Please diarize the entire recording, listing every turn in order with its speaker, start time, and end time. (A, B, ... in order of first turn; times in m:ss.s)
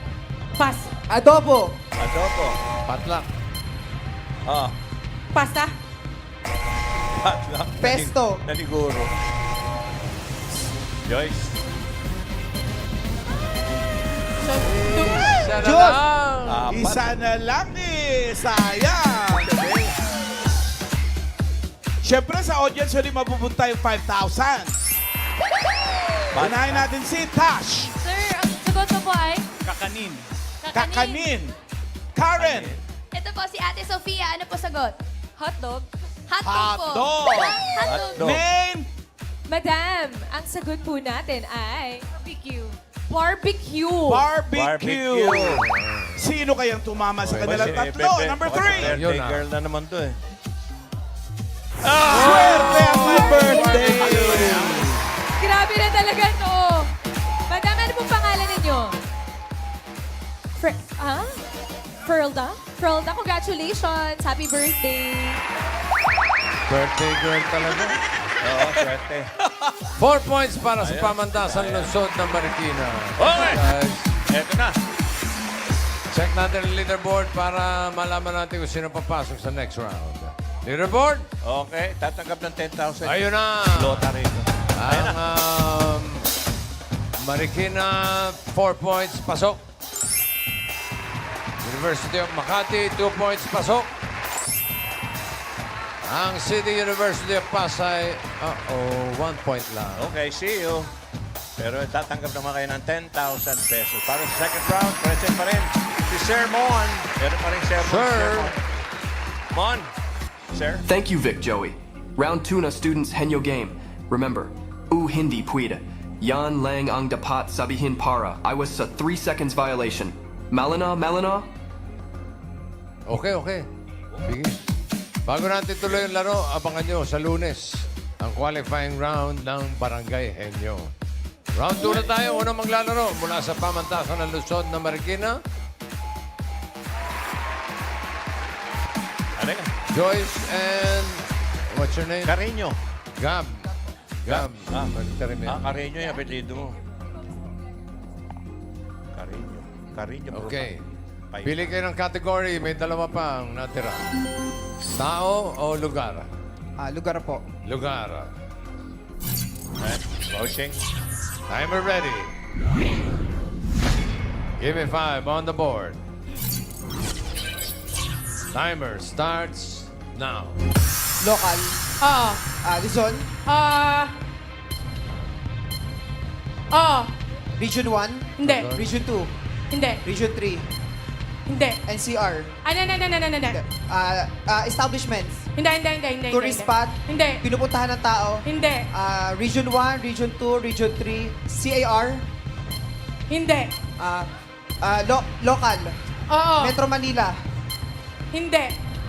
0:00.6-0:00.9 A
0:01.1-0:01.8 B
0:02.0-0:02.6 C
0:02.9-0:03.3 D
0:04.4-0:04.7 C
0:05.3-0:05.7 A
0:07.2-0:09.1 C
0:07.8-0:08.4 B
0:11.0-0:11.6 C
0:14.4-0:15.3 A
0:14.6-0:16.6 D
0:15.5-0:16.0 B
0:16.4-0:17.2 C
0:16.7-0:19.6 E
0:19.3-0:20.0 C
0:22.0-0:24.8 E
0:26.3-0:26.9 C
0:26.3-0:27.9 E
0:28.0-0:29.4 F
0:29.6-0:31.5 E
0:30.6-0:31.3 F
0:32.1-0:32.8 E
0:32.4-0:32.8 C
0:33.1-0:38.3 G
0:35.4-0:35.8 F
0:36.4-0:37.6 E
0:37.8-0:38.4 C
0:38.2-0:38.9 E
0:39.5-0:44.2 F
0:44.0-0:45.6 E
0:44.5-0:45.6 C
0:45.6-0:46.2 D
0:46.2-0:48.9 E
0:47.2-0:47.9 D
0:47.4-0:50.2 C
0:48.6-0:49.4 D
0:51.8-0:54.8 C
0:52.0-0:55.0 E
0:52.1-0:54.8 D
0:53.3-0:53.8 F
0:55.4-0:56.9 F
0:57.5-0:59.0 F
1:00.6-1:01.4 F
1:02.0-1:05.4 F
1:06.7-1:08.0 D
1:08.4-1:09.3 C
1:10.0-1:14.1 D
1:10.8-1:11.9 C
1:13.2-1:13.6 C
1:14.3-1:14.8 C
1:16.1-1:21.3 D
1:21.4-1:25.2 C
1:23.0-1:24.1 D
1:24.8-1:26.2 D
1:27.2-1:29.6 D
1:31.6-1:33.9 D
1:36.0-1:40.1 D
1:40.0-1:40.9 C
1:41.6-1:48.6 C
1:47.8-1:48.5 D
1:49.5-1:49.9 C
1:50.5-1:50.8 C
1:50.8-2:01.5 H
2:03.1-2:03.7 D
2:04.2-2:04.6 D
2:05.2-2:10.9 D
2:11.5-2:15.4 D
2:11.8-2:12.1 C
2:19.4-2:19.7 C
2:19.9-2:22.4 D
2:22.2-2:22.8 C
2:23.2-2:23.7 D
2:24.2-2:25.8 D
2:24.2-2:24.9 C
2:25.5-2:26.8 C
2:29.1-2:31.7 C
2:30.3-2:30.8 D
2:31.4-2:34.0 D
2:35.0-2:36.3 D
2:36.8-2:37.4 B
2:37.6-2:38.3 D
2:39.8-2:40.8 C
2:41.5-2:42.3 D
2:44.6-2:46.0 D
2:48.5-2:50.6 D
2:51.2-2:51.8 B
2:52.0-2:52.4 A
2:52.6-2:53.3 B
2:53.5-2:54.1 A
2:56.7-2:57.1 A
2:57.6-2:59.3 B
2:58.4-2:58.7 A
2:58.4-2:58.8 D
2:59.7-3:00.0 A
3:00.0-3:00.7 B
3:01.5-3:01.8 A
3:01.9-3:02.5 B
3:02.6-3:03.6 A
3:03.5-3:05.4 B
3:05.6-3:07.4 A
3:06.3-3:12.2 B
3:08.4-3:08.9 A
3:13.3-3:13.7 A
3:14.0-3:14.3 B
3:14.8-3:15.9 B
3:16.3-3:16.7 A
3:16.6-3:17.3 B
3:18.3-3:18.7 A